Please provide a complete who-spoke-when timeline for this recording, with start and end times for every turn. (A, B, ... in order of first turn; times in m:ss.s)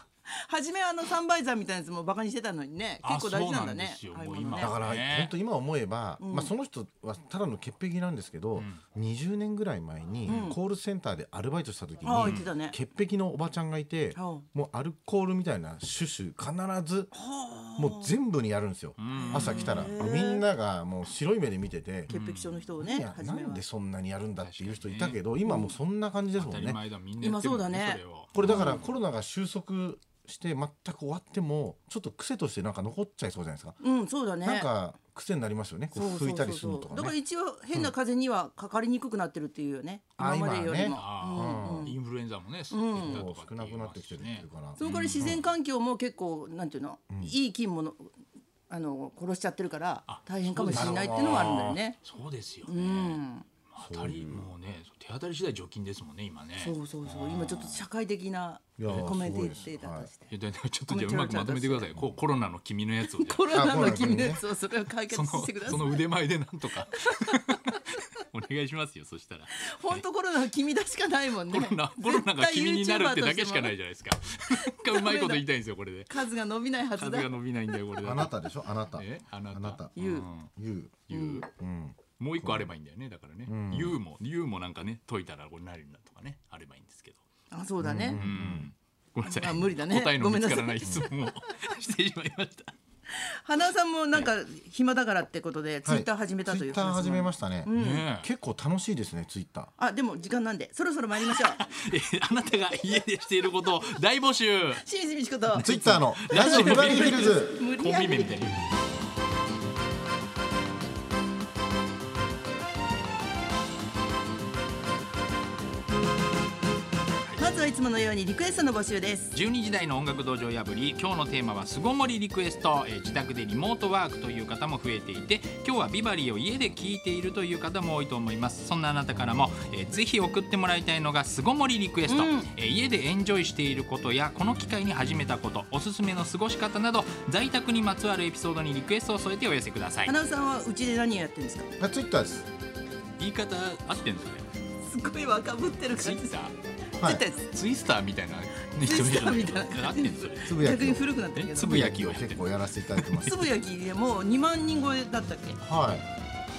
0:00.3-0:04.8 A
0:03.0-0:05.3 B
0:04.6-0:17.1 C
0:06.2-0:06.5 A
0:10.2-0:10.6 A
0:10.3-0:10.5 B
0:12.0-0:12.8 A
0:12.2-0:12.5 B
0:14.1-0:14.4 A
0:17.1-0:18.1 A
0:17.8-0:22.1 C
0:19.0-0:19.9 B
0:19.1-0:20.4 A
0:22.1-0:22.7 B
0:22.1-0:23.6 A
0:22.8-0:26.8 C
0:24.4-0:25.2 B
0:25.4-0:25.7 A
0:26.4-0:28.8 B
0:27.2-0:28.8 A
0:28.3-0:33.8 C
0:33.8-0:34.7 A
0:34.4-0:37.1 C
0:35.9-0:42.0 A
0:40.2-0:41.9 C
0:40.8-0:45.4 B
0:42.7-0:43.2 A
0:42.9-0:45.5 C
0:44.8-0:48.1 A
0:48.7-0:52.0 A
0:50.1-0:57.8 B
0:50.7-0:51.8 C
0:52.6-0:53.5 A
0:53.8-0:54.5 C
0:56.6-1:00.3 A
0:57.2-0:57.6 C
0:58.8-1:00.1 C
1:00.3-1:04.2 B
1:00.9-1:02.0 A
1:03.1-1:06.0 A
1:03.5-1:04.4 C
1:05.1-1:10.0 B
1:07.1-1:08.0 A
1:09.6-1:13.7 A
1:11.5-1:16.2 B
1:14.5-1:15.4 A
1:16.1-1:17.3 A
1:17.0-1:20.5 B
1:18.0-1:19.9 C
1:20.0-1:20.3 A
1:20.6-1:22.7 C
1:21.1-1:21.5 B
1:21.1-1:21.4 A
1:22.2-1:27.2 B
1:23.5-1:24.0 C
1:27.5-1:28.2 A
1:27.8-1:28.7 C
1:28.1-1:32.7 B
1:29.2-1:31.2 A
1:33.1-1:38.1 A
1:35.8-1:39.7 C
1:37.8-1:38.3 B
1:39.8-1:41.6 A
1:41.2-1:44.8 B
1:44.8-1:48.5 A
1:45.5-1:47.6 C
1:45.5-1:48.7 B
1:57.4-1:59.3 A
1:59.3-2:20.1 B
2:12.1-2:12.5 A
2:20.0-2:21.7 A
2:21.8-2:22.5 C
2:23.2-2:24.4 B
2:24.8-2:26.4 A
2:25.9-2:26.5 B
2:27.0-2:27.2 C
2:27.0-2:27.5 A
2:27.5-2:33.4 B
2:28.8-2:31.8 A
2:30.4-2:33.4 C
2:33.2-2:35.6 A
2:35.6-2:36.0 C